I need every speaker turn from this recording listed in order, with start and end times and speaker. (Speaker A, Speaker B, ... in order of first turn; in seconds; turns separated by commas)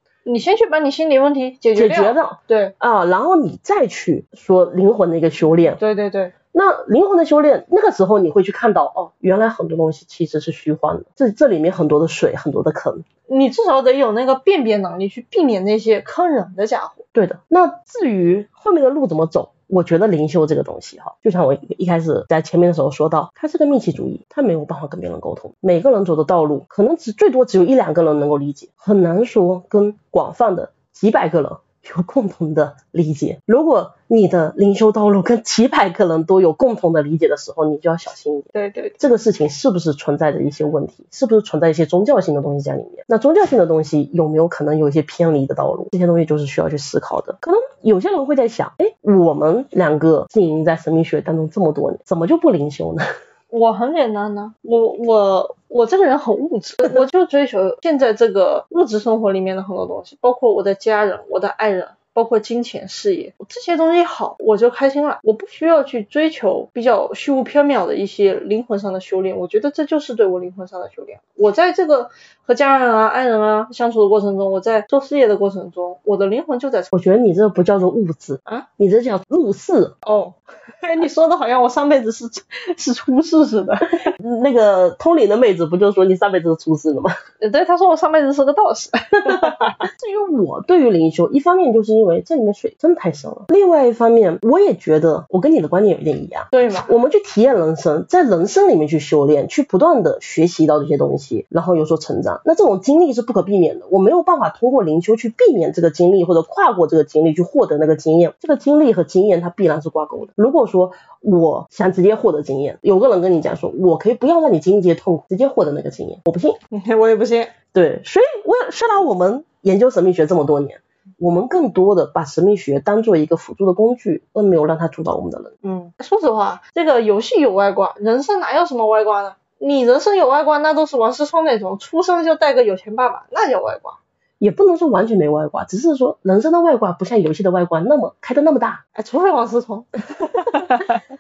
Speaker A: 0.2-2.7, Speaker B: 1.8-5.8, Speaker A: 5.8-6.3, Speaker B: 6.5-13.1, Speaker A: 13.3-17.0, Speaker B: 17.1-53.0, Speaker A: 38.5-39.0, Speaker A: 53.5-76.9, Speaker B: 76.9-80.0, Speaker A: 80.0-84.1, Speaker B: 83.9-87.1, Speaker A: 87.4-89.8, Speaker B: 89.2-116.6, Speaker A: 96.5-96.9, Speaker A: 116.7-117.6, Speaker B: 117.7-125.5, Speaker A: 125.6-134.0, Speaker B: 134.4-138.8, Speaker A: 138.9-141.0